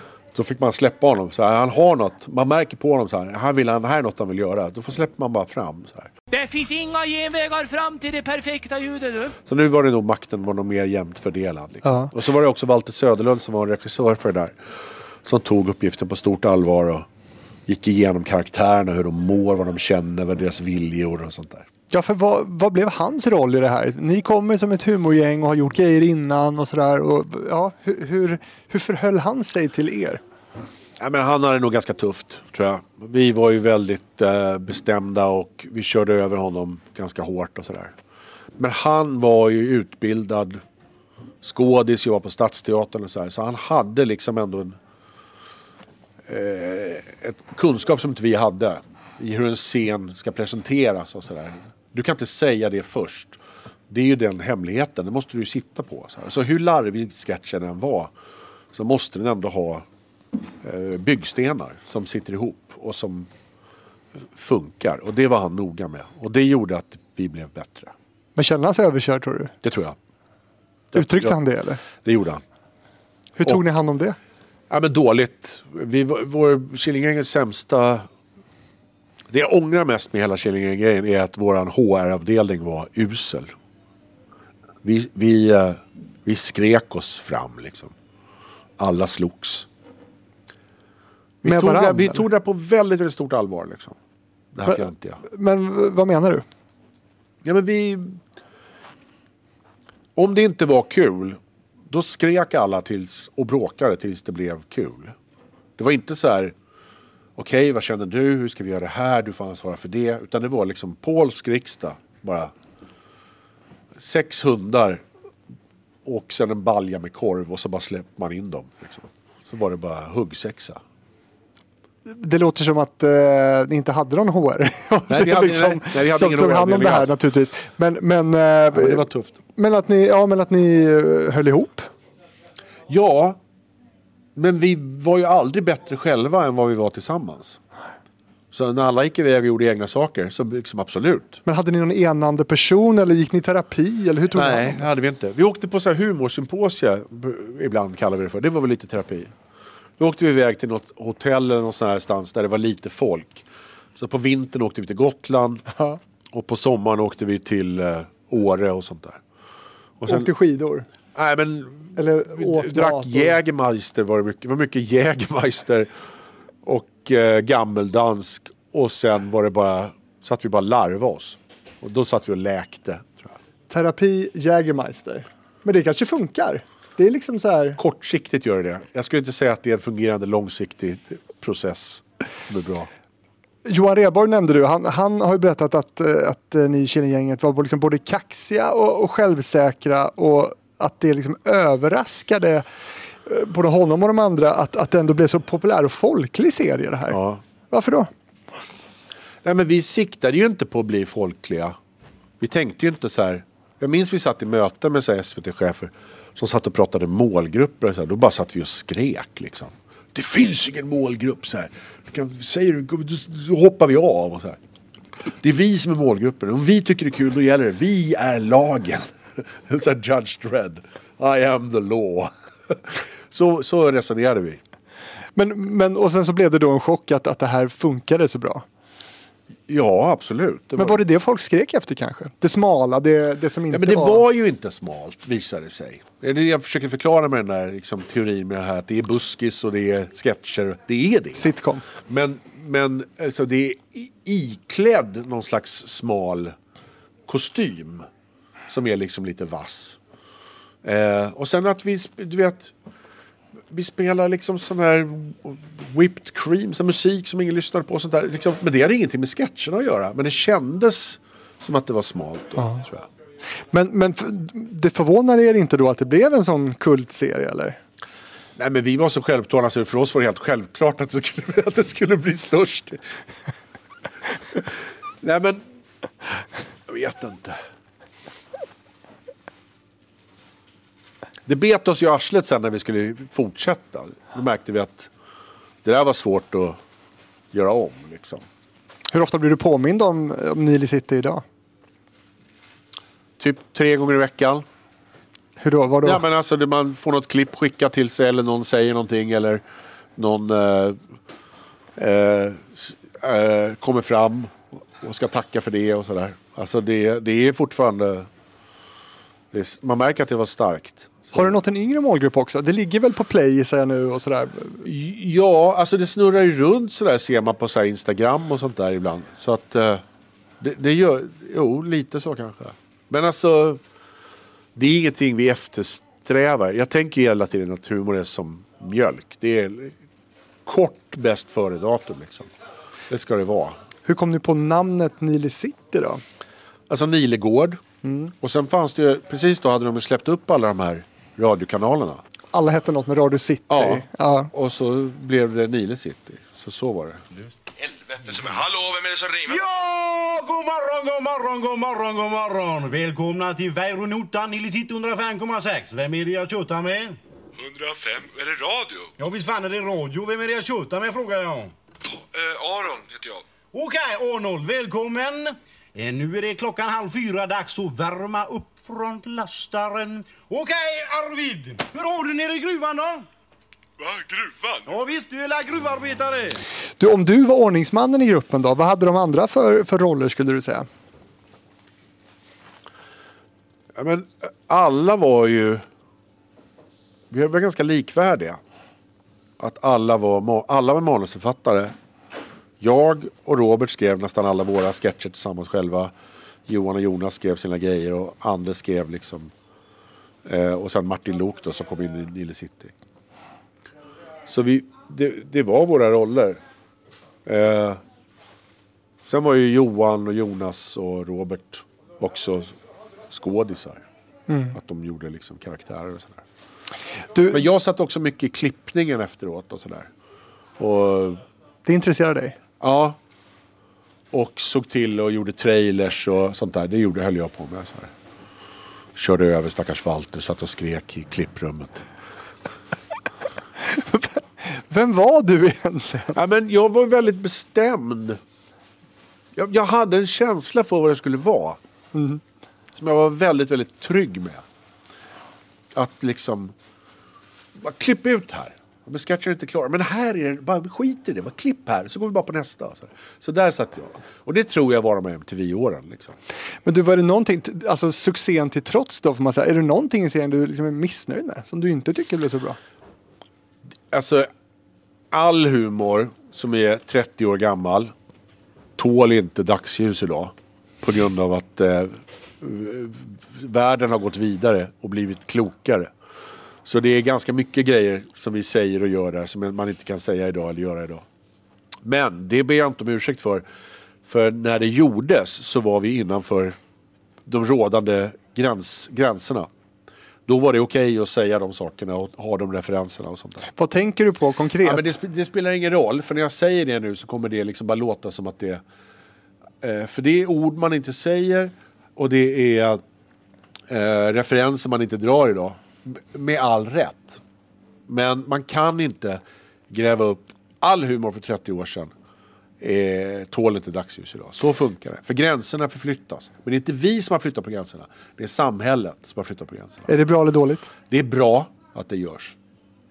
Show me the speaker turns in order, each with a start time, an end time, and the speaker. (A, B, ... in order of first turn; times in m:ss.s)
0:00.3-0:06.1 A
0:06.3-0:09.4 B
0:09.4-0:14.6 A
0:11.8-0:12.1 C
0:15.2-0:17.1 A
0:17.7-0:21.7 A
0:21.9-0:30.2 C
0:31.0-0:37.9 A
0:38.6-0:40.6 A
0:41.4-0:44.8 A
0:46.3-0:58.1 A
0:58.7-0:59.9 A
1:00.6-1:03.3 A
1:04.3-1:07.9 A
1:08.4-1:09.5 C
1:09.6-1:10.0 A
1:10.9-1:12.4 A
1:11.0-1:11.8 C
1:13.4-1:14.2 C
1:14.7-1:18.1 A
1:19.3-1:23.5 A
1:24.8-1:27.9 A
1:28.8-1:29.7 A
1:31.4-1:32.2 C
1:31.4-1:34.0 A
1:34.5-1:35.2 A
1:34.7-1:36.4 C
1:37.4-1:38.2 A
1:40.2-1:41.4 A
1:41.9-1:45.2 A
1:45.8-1:46.6 A
1:47.4-1:52.5 A
1:54.0-1:55.0 A
1:56.0-2:00.8 A
2:02.1-2:09.0 C
2:05.1-2:07.2 A
2:08.7-2:09.4 A
2:09.6-2:11.9 C
2:12.9-2:13.4 A
2:14.4-2:17.6 A
2:18.5-2:21.4 A
2:21.5-2:24.8 C
2:24.3-2:29.3 A
2:30.0-2:35.6 A
2:36.3-2:39.2 A
2:40.0-2:40.3 A
2:40.1-2:40.9 C
2:41.1-2:45.9 A
2:42.0-2:43.4 C
2:46.6-2:53.4 A
2:53.7-2:57.8 C
2:57.8-3:02.9 A
3:03.6-3:12.6 C
3:13.3-3:17.2 C
3:17.1-3:17.4 A
3:17.7-3:18.1 C
3:19.4-3:21.8 A
3:22.4-3:34.6 A
3:35.4-3:44.6 A
3:45.4-3:48.6 C
3:49.7-3:51.0 A
3:50.8-3:54.2 C
3:53.7-4:06.6 A
4:01.4-4:01.9 C
4:07.3-4:08.1 A
4:08.7-4:10.0 A
4:10.8-4:12.7 A
4:13.7-4:23.1 A
4:23.7-4:27.8 C
4:28.6-4:33.0 A
4:35.2-4:35.6 A
4:36.9-4:37.6 A
4:41.5-4:45.1 A
4:45.8-4:46.8 A
4:47.5-4:48.4 A
4:49.1-4:51.4 C
4:53.4-4:54.6 A
4:55.6-4:56.2 C
4:56.0-4:59.6 A
5:00.2-5:01.0 A
5:02.0-5:08.3 A
5:09.5-5:11.5 A
5:11.3-5:14.8 C
5:14.8-5:20.0 A
5:20.6-5:23.8 A
5:24.8-5:30.0 A
5:30.6-5:32.5 A
5:33.1-5:33.8 A
5:34.0-5:36.2 C
5:36.9-5:37.8 A
5:38.0-5:38.3 C
5:38.4-5:42.2 A
5:42.5-5:44.5 C
5:43.7-5:47.2 A
5:47.8-5:49.6 D
5:49.4-5:57.2 E
5:57.6-5:59.1 D
5:59.2-6:01.7 E
6:02.1-6:03.4 D
6:03.7-6:13.3 E
6:14.0-6:14.8 D
6:14.9-6:16.6 E
6:17.0-6:20.9 C
6:24.0-6:25.8 A
6:27.3-6:28.6 A
6:29.6-6:31.9 A
6:32.8-6:36.1 A
6:36.7-6:39.5 A
6:40.4-6:42.9 A
6:44.5-6:46.6 A
6:47.4-6:48.0 A
6:49.2-6:52.8 A
6:53.3-6:54.0 A
6:54.5-6:54.8 C
6:54.7-6:56.4 A
6:57.3-6:57.6 C
6:57.5-7:00.1 A
7:00.8-7:01.4 A
7:01.9-7:02.6 C
7:02.8-7:03.2 A
7:04.3-7:08.1 A
7:09.2-7:12.1 A
7:13.9-7:16.4 C
7:16.3-7:18.4 A
7:19.6-7:21.8 A
7:22.1-7:22.4 C
7:22.9-7:24.6 A
7:26.0-7:26.7 A
7:27.8-7:36.4 A
7:36.8-7:42.8 C
7:44.1-7:44.5 A
7:45.3-7:48.1 A
7:49.0-7:56.1 A
7:56.8-8:01.3 A
8:02.0-8:03.6 A
8:04.3-8:06.8 A
8:07.5-8:09.7 A
8:10.5-8:13.7 A
8:13.8-8:15.1 C
8:14.8-8:18.8 A
8:19.8-8:23.0 A
8:23.9-8:27.4 A
8:28.1-8:32.1 A
8:32.8-8:40.1 A
8:40.1-8:40.9 C
8:41.1-8:42.6 A